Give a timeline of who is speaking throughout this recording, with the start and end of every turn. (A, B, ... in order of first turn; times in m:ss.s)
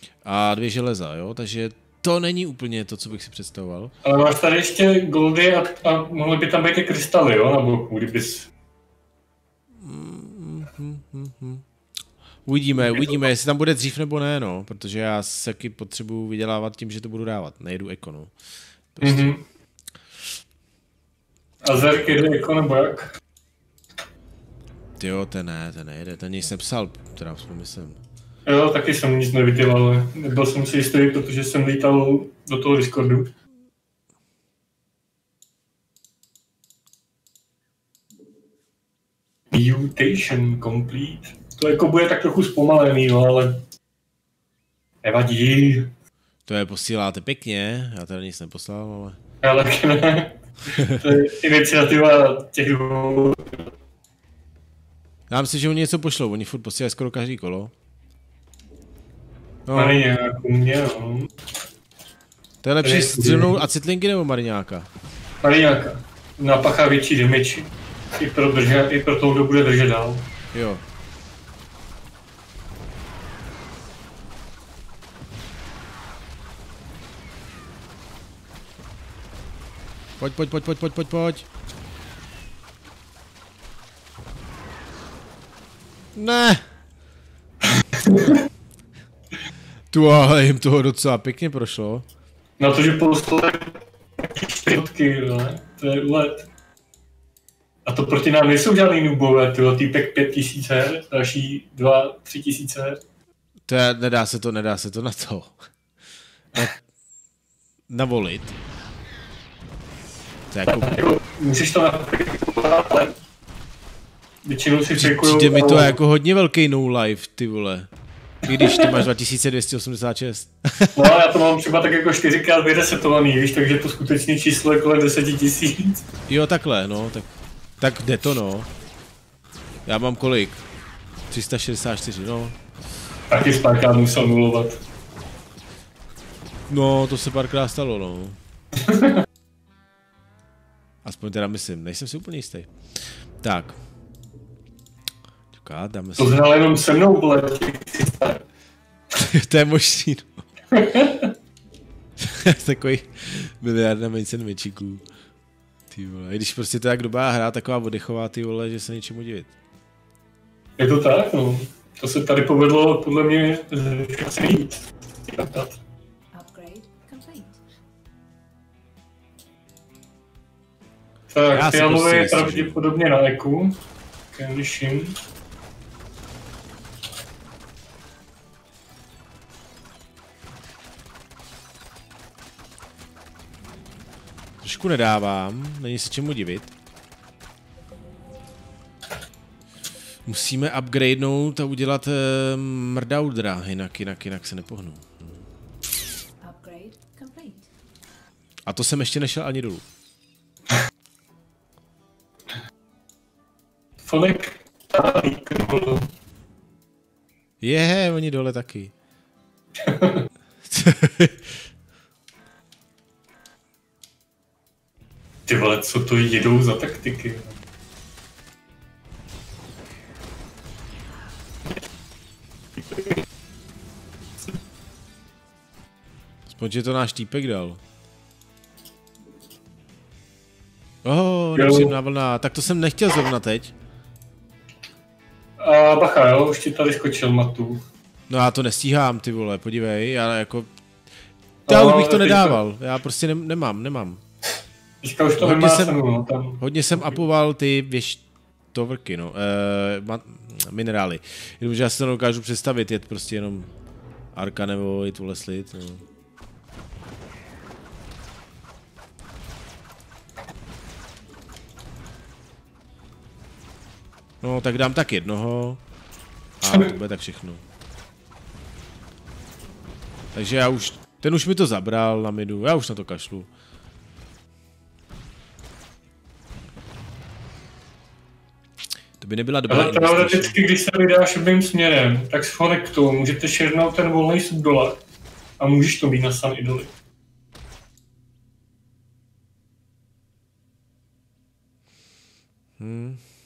0:00.2-0:03.9 A
0:04.0-0:08.5 B
0:09.8-0:11.6 A
0:12.5-0:18.3 A
0:12.8-0:13.2 B
0:18.9-0:19.4 A
0:19.0-0:19.4 B
0:21.6-0:23.2 B
0:25.0-0:28.0 A
0:28.5-0:33.3 B
0:39.5-0:43.7 B
0:45.0-0:45.9 B
0:46.5-0:49.2 A
0:49.4-0:53.7 B
0:50.8-0:51.0 A
0:55.3-0:57.7 A
0:59.7-1:00.0 A
0:59.7-1:01.3 B
1:02.6-1:04.9 A
1:02.8-1:03.6 B
1:05.4-1:10.3 B
1:10.5-1:10.8 A
1:20.2-1:21.5 A
1:26.2-1:26.6 A
1:27.9-1:28.4 B
1:29.9-1:32.1 A
1:32.6-1:36.5 B
1:37.8-1:43.0 B
1:43.7-1:45.6 A
1:47.9-1:48.6 A
1:50.5-1:50.9 A
1:50.7-1:53.2 B
1:54.4-1:56.0 B
1:55.0-1:57.9 A
1:58.4-2:01.1 A
1:58.5-1:59.0 B
2:00.9-2:06.1 B
2:06.3-2:07.3 A
2:07.8-2:08.7 A
2:09.9-2:10.6 A
2:11.3-2:12.6 A
2:13.3-2:14.8 B
2:16.7-2:18.4 A
2:18.8-2:19.2 B
2:21.0-2:22.7 A
2:23.4-2:23.8 A
2:25.5-2:26.4 A
2:26.2-2:28.4 B
2:29.1-2:30.4 A
2:30.7-2:31.3 B
2:32.2-2:35.0 A
2:35.9-2:39.5 A
2:40.8-2:45.8 B
2:46.3-2:47.6 C
2:51.3-2:53.8 B
2:51.5-2:52.8 A
2:54.3-2:55.2 B
3:04.6-3:06.7 A
3:10.3-3:15.4 A
3:16.4-3:17.7 C
3:18.7-3:19.8 A
3:24.0-3:26.1 B
3:27.6-3:28.9 A
3:29.8-3:30.3 B
3:30.7-3:31.6 A
3:35.5-3:37.6 B
3:46.5-3:47.8 A
3:51.0-3:53.7 A
3:51.6-3:52.0 B
3:55.6-3:57.8 B
3:58.3-4:00.7 A
4:01.7-4:02.6 B
4:01.7-4:04.2 A
4:05.0-4:06.6 B
4:05.4-4:06.0 A
4:06.6-4:13.7 A
4:14.3-4:16.0 A
4:24.4-4:25.8 A
4:26.6-4:27.6 A
4:30.3-4:33.5 A
4:39.2-4:40.6 A
4:39.7-4:45.0 B
4:45.6-4:46.9 B
4:52.8-4:53.2 A